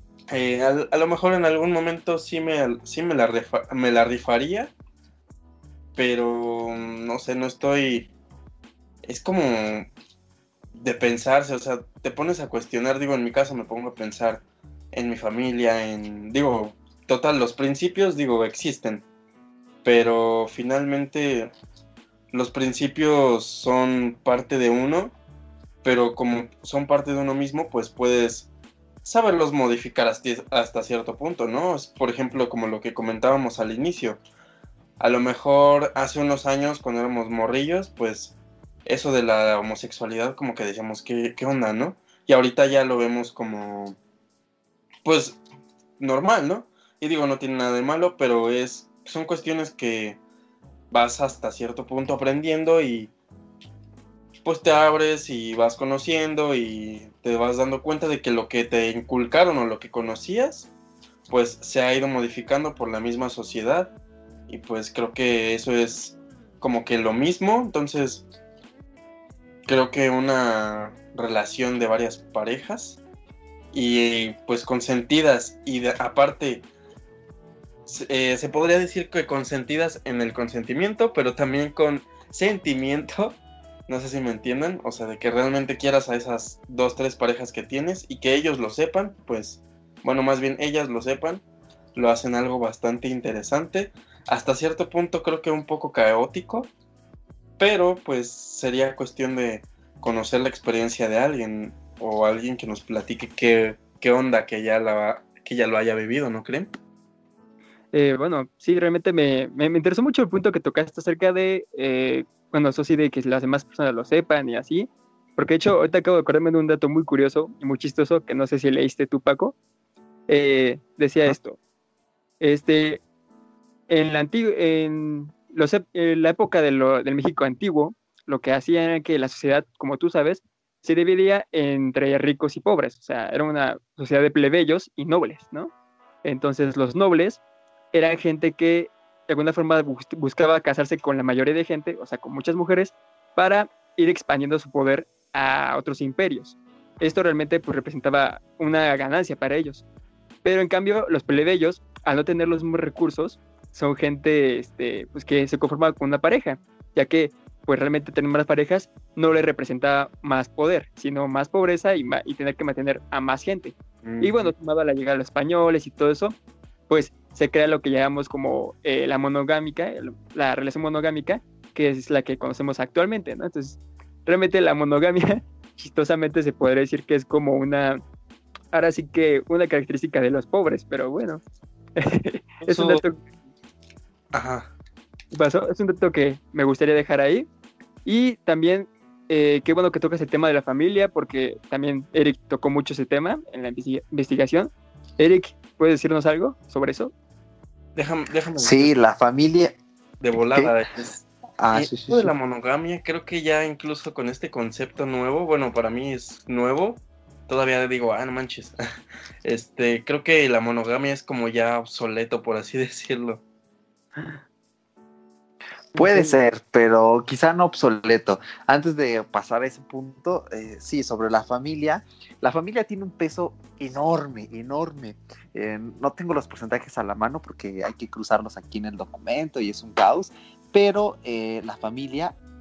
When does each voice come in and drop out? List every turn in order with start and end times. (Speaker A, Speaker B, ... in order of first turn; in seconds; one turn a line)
Speaker A: 0.3-4.7
Speaker A: 6.0-8.1
Speaker A: 9.1-9.9
Speaker A: 10.8-19.1
Speaker A: 19.8-21.5
Speaker A: 22.3-25.1
Speaker A: 25.8-28.5
Speaker A: 29.0-34.2
Speaker A: 35.0-44.0
Speaker A: 45.0-45.4
Speaker A: 46.0-50.2
Speaker A: 50.9-53.1
Speaker A: 54.5-60.7
Speaker A: 61.3-63.9
Speaker A: 64.5-68.3
Speaker A: 69.7-73.0
Speaker A: 73.7-76.7
Speaker A: 77.9-91.4
Speaker A: 92.0-96.7
Speaker A: 97.6-106.7
Speaker B: 107.9-119.6
Speaker B: 120.3-121.6
Speaker B: 122.4-123.0
Speaker B: 123.9-135.7
Speaker B: 136.2-137.4
Speaker B: 137.9-149.8
Speaker B: 150.4-166.3
Speaker A: 164.1-164.5
Speaker B: 166.9-178.0
Speaker B: 178.7-181.4
Speaker B: 182.0-183.2
Speaker A: 182.7-183.0
Speaker A: 184.3-184.7
Speaker B: 185.3-187.5
Speaker B: 188.1-197.1
Speaker A: 198.0-198.9
Speaker C: 198.6-199.7
Speaker A: 200.2-208.8
Speaker C: 200.4-200.7
Speaker C: 201.6-202.3
Speaker A: 209.4-213.4
Speaker C: 215.9-232.4
Speaker A: 216.1-216.3